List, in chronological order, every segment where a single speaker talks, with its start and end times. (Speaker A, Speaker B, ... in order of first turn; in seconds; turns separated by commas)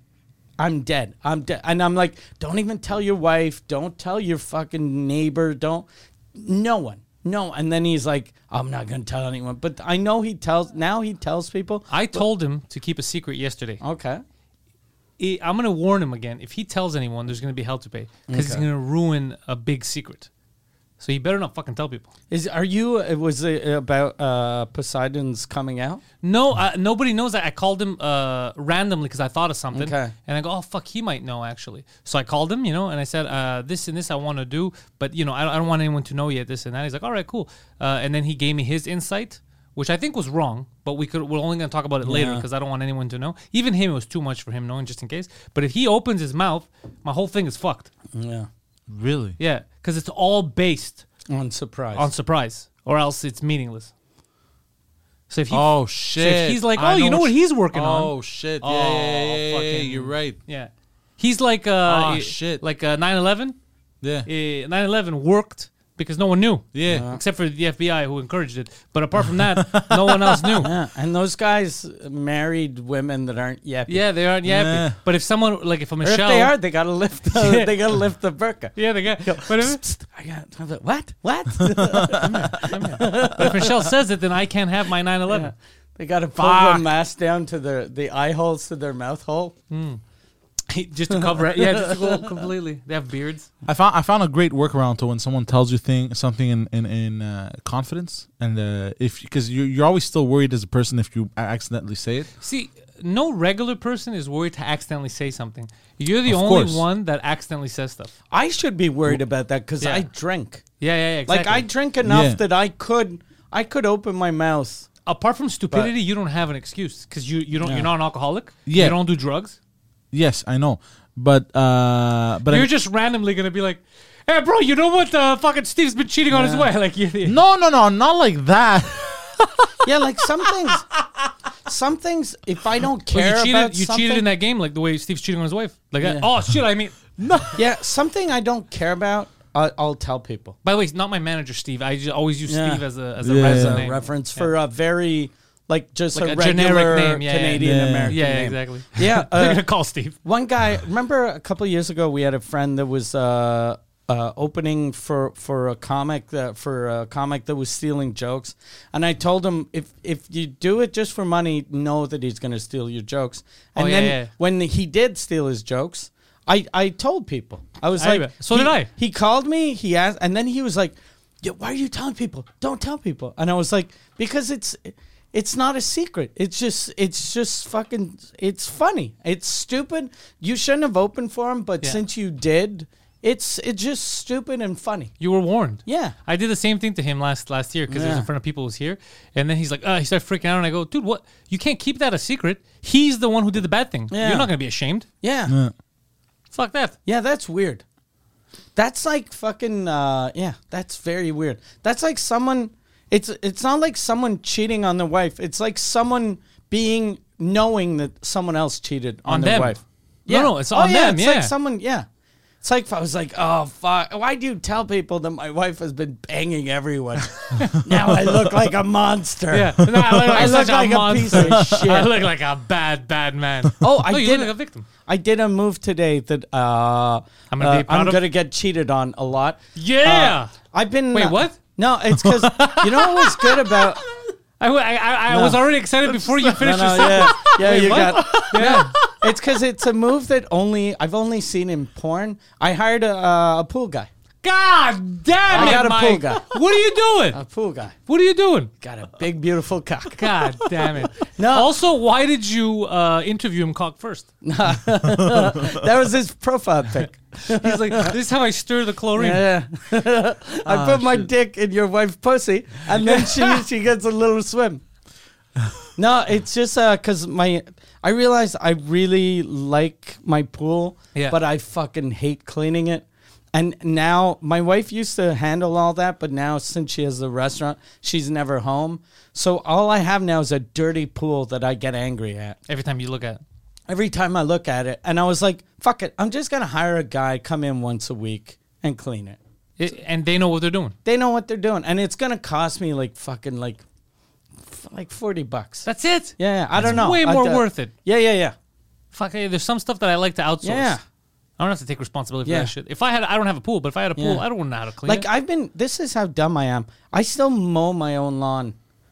Speaker A: 0.6-12.2, Speaker B: 11.9-13.8, Speaker A: 13.8-14.2, Speaker B: 15.2-20.3, Speaker A: 18.3-18.7, Speaker B: 21.0-22.1, Speaker A: 22.3-26.0, Speaker B: 26.2-47.9, Speaker A: 29.7-30.1, Speaker A: 42.0-42.5, Speaker A: 48.1-48.5, Speaker C: 48.9-49.4, Speaker B: 49.4-51.0, Speaker A: 51.3-52.1, Speaker B: 52.0-53.9, Speaker B: 55.3-63.6, Speaker C: 55.5-60.4, Speaker C: 61.9-62.6, Speaker C: 64.0-64.3, Speaker B: 64.3-70.7, Speaker C: 66.7-67.1, Speaker A: 66.9-67.2, Speaker C: 69.6-70.7, Speaker A: 70.6-74.0, Speaker B: 73.9-76.5, Speaker C: 74.5-75.0, Speaker A: 76.0-83.9, Speaker B: 77.2-77.7, Speaker B: 78.8-79.8, Speaker C: 81.8-82.3, Speaker B: 82.2-85.5, Speaker C: 83.0-83.3, Speaker A: 85.3-89.5, Speaker B: 86.4-86.9, Speaker B: 89.7-90.0, Speaker B: 90.7-93.5, Speaker A: 91.4-92.4, Speaker C: 93.7-102.3, Speaker B: 102.4-108.1, Speaker C: 106.3-106.8, Speaker A: 108.3-110.6, Speaker B: 109.8-110.1, Speaker B: 110.8-111.7, Speaker A: 111.3-114.9, Speaker C: 112.0-112.4, Speaker B: 115.1-119.6, Speaker A: 117.6-117.9, Speaker C: 118.7-119.0, Speaker C: 120.1-122.7, Speaker B: 122.5-127.4, Speaker A: 126.3-126.7, Speaker C: 127.2-129.9, Speaker A: 129.8-130.8, Speaker C: 130.4-131.0, Speaker A: 131.7-134.2, Speaker B: 133.1-137.5, Speaker A: 136.0-136.3, Speaker C: 137.2-137.6, Speaker A: 137.6-140.6, Speaker B: 140.6-144.5, Speaker A: 142.5-149.6, Speaker C: 143.2-143.8, Speaker B: 146.1-150.2, Speaker C: 147.6-148.2, Speaker A: 150.2-185.1, Speaker B: 163.8-164.3, Speaker B: 168.0-168.9, Speaker B: 185.2-195.1, Speaker A: 185.9-186.2, Speaker A: 187.9-188.3, Speaker A: 194.1-194.5, Speaker A: 195.2-195.6, Speaker B: 196.5-197.0, Speaker A: 197.1-197.8, Speaker A: 198.8-212.1, Speaker B: 209.3-211.5, Speaker A: 212.6-222.1, Speaker B: 219.5-224.9, Speaker C: 219.8-220.6, Speaker C: 221.3-221.9, Speaker A: 223.8-224.5, Speaker A: 225.1-234.0, Speaker B: 227.5-228.2, Speaker B: 229.8-230.5, Speaker B: 231.1-231.6, Speaker C: 232.1-234.2, Speaker B: 234.6-238.9, Speaker A: 235.3-235.6, Speaker C: 236.1-239.2, Speaker A: 236.6-244.1, Speaker B: 244.4-247.4, Speaker A: 245.5-246.5, Speaker C: 245.5-245.8, Speaker A: 247.3-247.9, Speaker B: 248.1-248.7, Speaker A: 248.8-250.3, Speaker B: 250.2-254.3, Speaker A: 251.3-251.7, Speaker A: 254.4-258.1, Speaker C: 255.0-255.5, Speaker B: 257.5-259.4, Speaker A: 259.1-264.8, Speaker C: 260.7-261.3, Speaker B: 263.1-263.6, Speaker A: 266.0-282.6, Speaker B: 282.7-283.4, Speaker A: 283.9-289.4, Speaker B: 289.8-291.0, Speaker A: 291.1-293.8, Speaker A: 294.6-298.6, Speaker B: 295.9-297.9, Speaker B: 299.1-301.0, Speaker A: 300.6-301.0, Speaker B: 301.6-305.2, Speaker A: 302.4-302.7, Speaker A: 304.2-304.4, Speaker A: 305.0-308.8